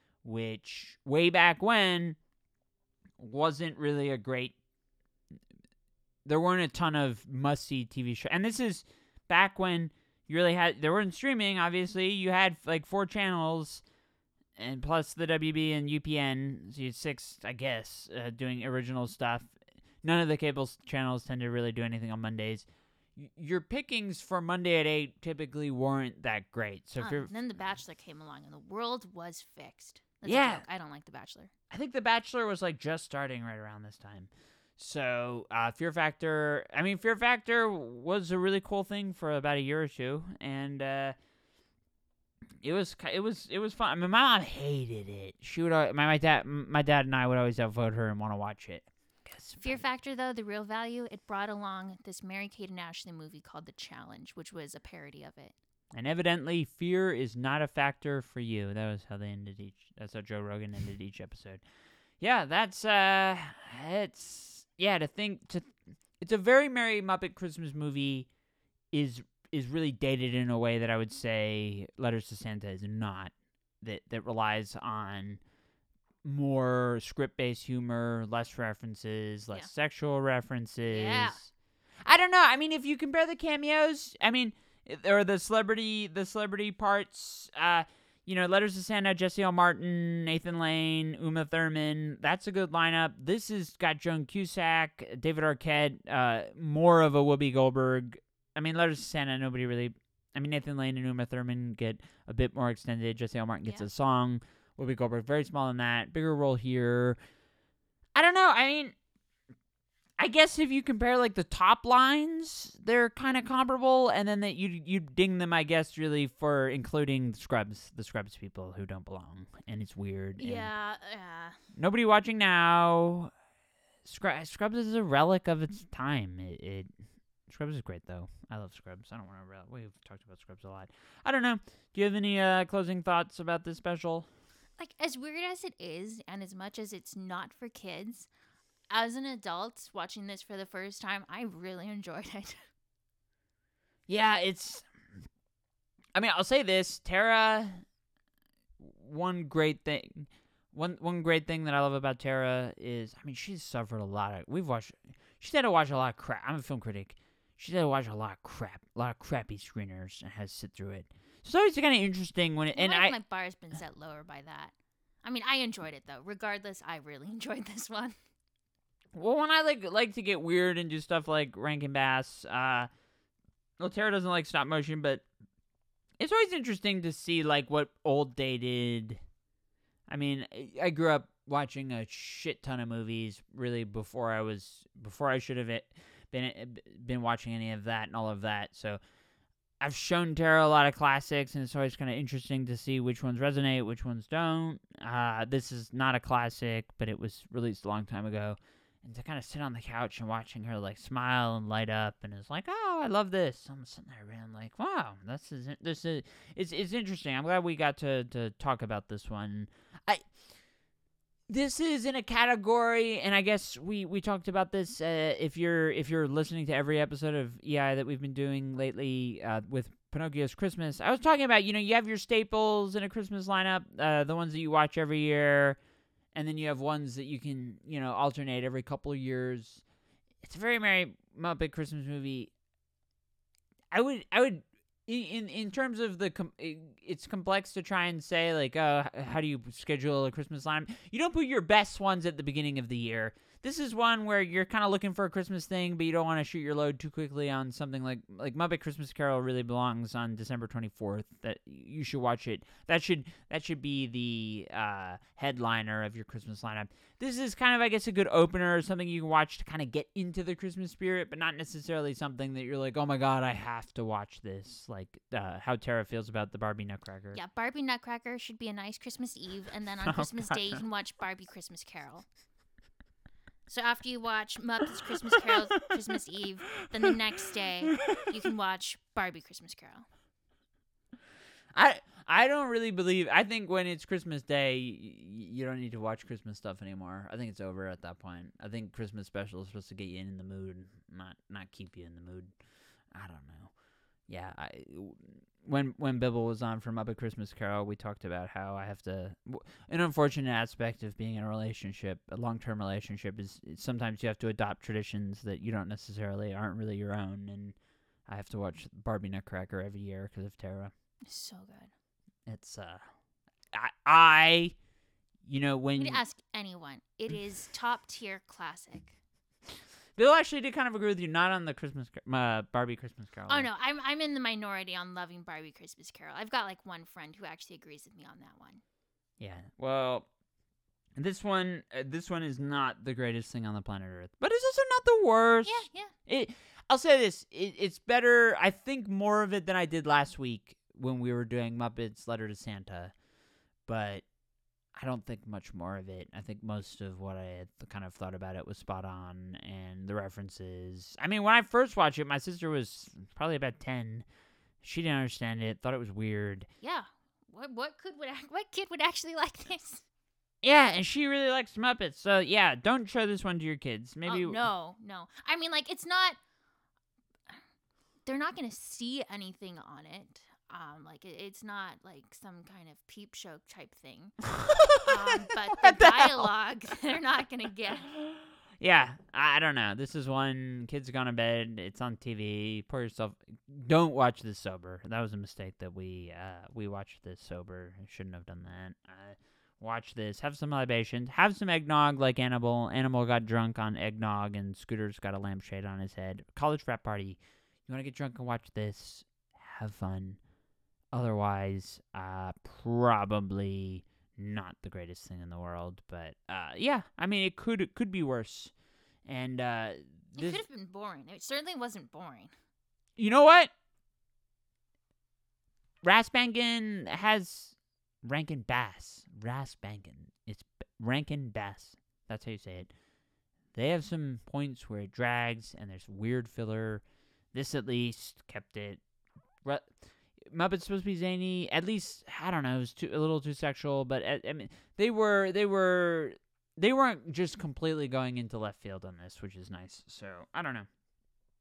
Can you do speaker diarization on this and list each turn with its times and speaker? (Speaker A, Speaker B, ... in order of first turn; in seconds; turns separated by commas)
Speaker A: 0.2-2.2, Speaker A: 3.2-4.6, Speaker A: 6.2-13.8, Speaker A: 14.6-27.3, Speaker B: 27.0-31.5, Speaker A: 30.2-30.6, Speaker A: 31.7-41.2, Speaker A: 42.6-49.8, Speaker B: 49.6-55.5, Speaker A: 55.9-61.6, Speaker A: 62.2-68.3, Speaker A: 68.9-75.4, Speaker A: 76.2-81.5, Speaker B: 80.9-81.4, Speaker A: 82.0-107.2, Speaker A: 108.2-109.0, Speaker A: 110.2-120.7, Speaker B: 120.4-121.6, Speaker A: 121.8-123.3, Speaker A: 124.0-126.9, Speaker A: 127.5-134.3, Speaker B: 134.8-138.3, Speaker B: 138.9-142.6, Speaker A: 144.1-144.9, Speaker A: 146.2-147.8, Speaker A: 148.8-163.2, Speaker B: 162.7-168.2, Speaker A: 169.1-172.9, Speaker A: 173.8-175.2, Speaker A: 176.2-179.2, Speaker A: 180.1-189.0, Speaker A: 189.8-210.3, Speaker A: 211.5-225.8, Speaker A: 226.3-229.8, Speaker A: 230.4-232.5, Speaker A: 233.9-267.4, Speaker B: 267.3-272.3, Speaker A: 270.1-270.8, Speaker B: 273.7-280.1, Speaker A: 275.3-275.6, Speaker A: 277.9-278.3, Speaker A: 281.7-292.5, Speaker A: 293.1-293.7, Speaker A: 294.3-307.8, Speaker A: 308.3-310.9, Speaker B: 311.3-311.9, Speaker A: 312.5-313.0, Speaker A: 313.7-314.8, Speaker A: 315.4-316.2, Speaker B: 316.0-319.2, Speaker A: 320.2-323.7, Speaker B: 323.5-328.8, Speaker A: 329.4-330.3, Speaker A: 331.2-343.1, Speaker B: 335.6-336.1, Speaker A: 343.9-344.2, Speaker A: 344.9-354.3, Speaker A: 354.8-356.7, Speaker B: 356.8-360.1, Speaker A: 360.6-364.6, Speaker B: 364.2-366.4, Speaker B: 368.2-374.4, Speaker A: 374.6-376.5, Speaker B: 375.0-378.1, Speaker A: 378.1-400.4, Speaker A: 401.1-408.7, Speaker A: 409.3-410.6, Speaker B: 410.4-412.5, Speaker A: 413.2-413.7, Speaker A: 416.0-422.9, Speaker A: 423.7-429.0, Speaker A: 429.6-440.9